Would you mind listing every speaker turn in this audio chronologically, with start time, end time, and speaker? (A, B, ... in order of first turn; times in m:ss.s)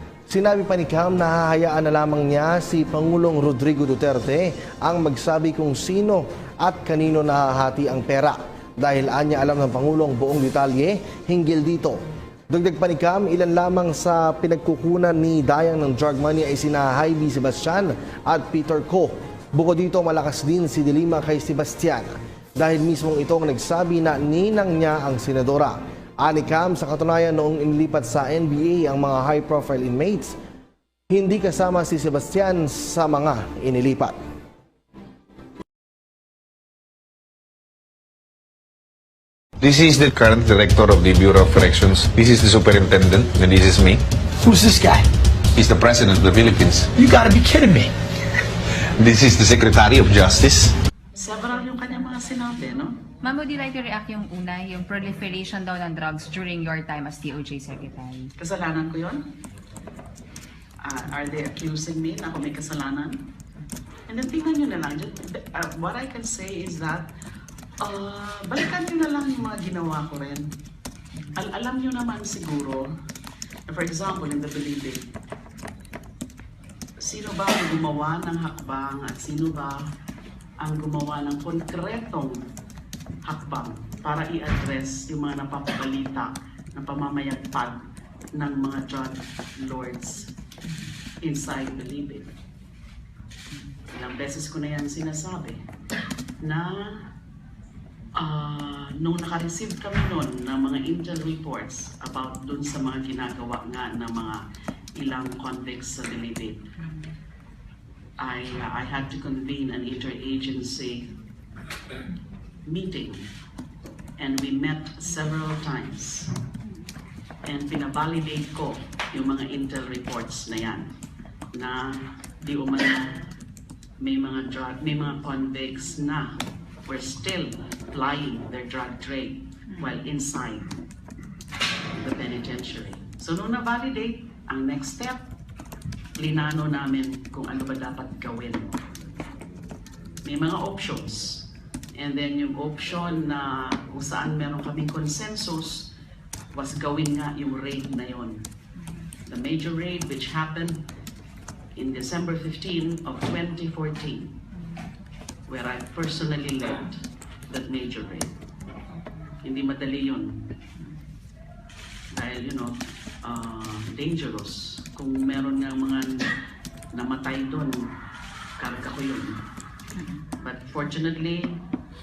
0:00.3-0:30.4 A
0:31.1-0:34.2 A
0:39.6-0:44.0 B
0:44.4-0:45.1 C
0:45.6-0:46.9 B
0:47.0-0:47.9 C
0:49.0-0:50.4 B
0:50.4-0:50.7 C
0:51.1-0:53.0 D
0:53.2-0:58.3 E
0:58.4-0:59.3 D
1:00.8-1:03.3 D
1:04.1-1:07.1 D
1:07.8-1:10.5 D
1:11.4-1:12.9 D
1:13.7-1:15.1 D
1:17.0-1:19.8 D
1:20.6-1:22.4 D
1:23.2-1:27.8 D
1:28.4-1:30.3 D
1:31.2-1:32.3 D
1:33.9-1:35.6 D
1:36.4-1:37.1 D
1:38.2-1:44.4 D
1:45.0-1:46.7 D
1:48.2-1:51.1 D
1:52.7-1:53.3 D
1:54.2-1:56.3 D
1:57.4-2:00.9 D
2:01.5-2:03.2 D
2:04.0-2:10.8 D
2:11.9-2:15.2 D
2:16.2-2:18.8 D
2:20.2-2:25.9 D
2:26.5-2:28.5 D
2:29.3-2:30.8 D
2:31.8-2:34.4 D
2:35.5-2:38.4 D
2:39.4-2:40.5 D
2:42.1-2:46.3 D
2:46.9-2:48.0 D
2:48.6-2:49.4 D
2:50.0-2:50.2 E
2:50.4-2:51.6 D